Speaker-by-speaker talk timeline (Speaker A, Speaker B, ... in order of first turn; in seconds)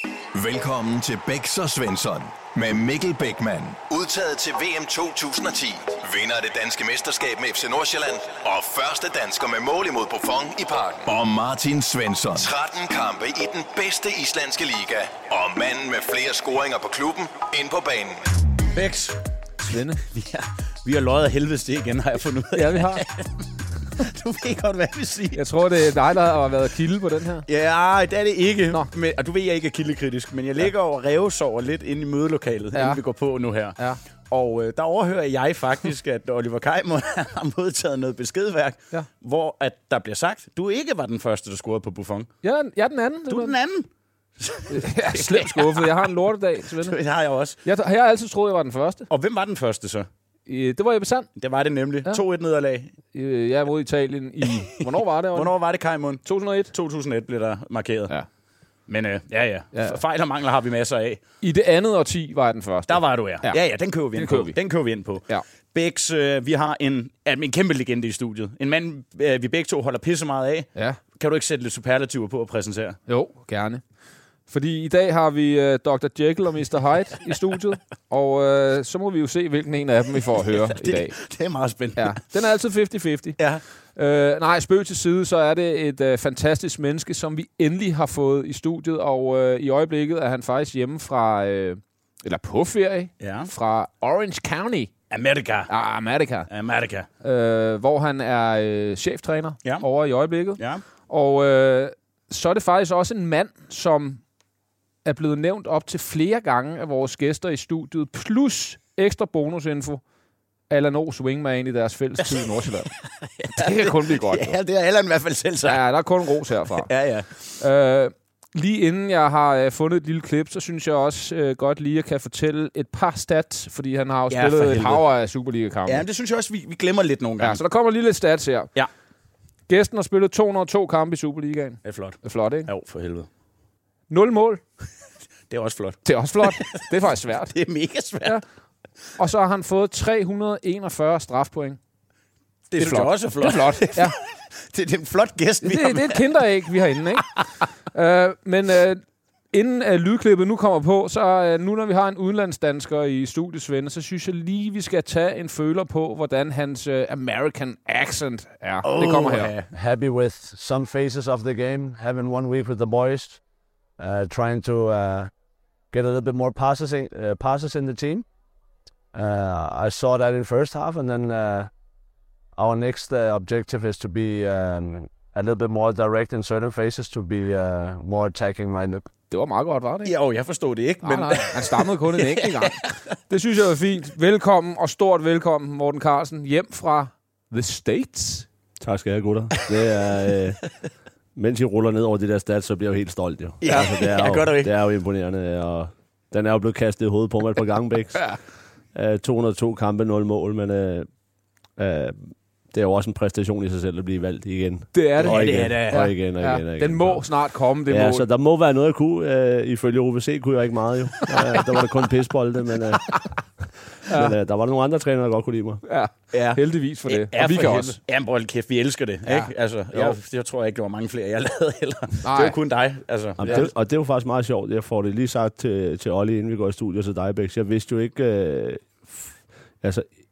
Speaker A: 0.3-18.3
Speaker B: 18.7-19.2, 20.0-23.5, 24.0-25.4, 27.5-33.8, 34.3-42.3, 43.3-43.9, 44.4-46.1, 46.8-47.6, 49.1-50.1, 51.4-52.9, 55.3-58.1, 58.9-61.2, 62.9-73.0, 80.7-82.2, 93.2-93.5, 95.1-95.7, 96.5-97.1, 100.6-100.8, 112.9-115.9, 116.7-117.6, 124.3-125.0, 125.9-127.6, 131.8-133.3, 135.5-136.8, 137.4-138.4, 142.7-146.4, 158.8-159.7, 180.1-182.8, 193.6-194.7, 205.2-206.0, 216.3-223.7
Speaker C: 19.6-20.0, 22.6-23.0, 25.3-27.4, 32.7-33.0, 42.4-43.5, 44.7-47.0, 47.6-49.1, 50.5-51.3, 53.1-55.5, 56.2-56.7, 61.4-63.6, 64.2-64.6, 73.1-73.8, 74.5-81.2, 82.0-83.4, 84.0-94.9, 95.7-96.5, 97.2-104.2, 105.0-110.0, 110.7-112.9, 113.5-114.6, 115.7-116.9, 117.6-126.0, 127.4-128.7, 129.7-132.7, 134.1-134.6, 136.1-137.5, 139.2-141.8, 142.8-144.2, 145.6-147.2, 147.9-159.5, 179.3-180.1, 181.0-188.5, 204.9-208.3, 211.3-211.6, 214.1-214.3, 215.9-218.0, 219.3-220.2, 222.2-222.6
Speaker D: 159.7-163.4, 164.0-165.3, 165.9-168.2, 169.1-171.7, 172.6-179.0
Speaker E: 188.8-190.6, 191.3-198.3, 198.9-201.1, 201.8-207.3, 207.9-213.2, 214.1-215.8, 223.4-229.3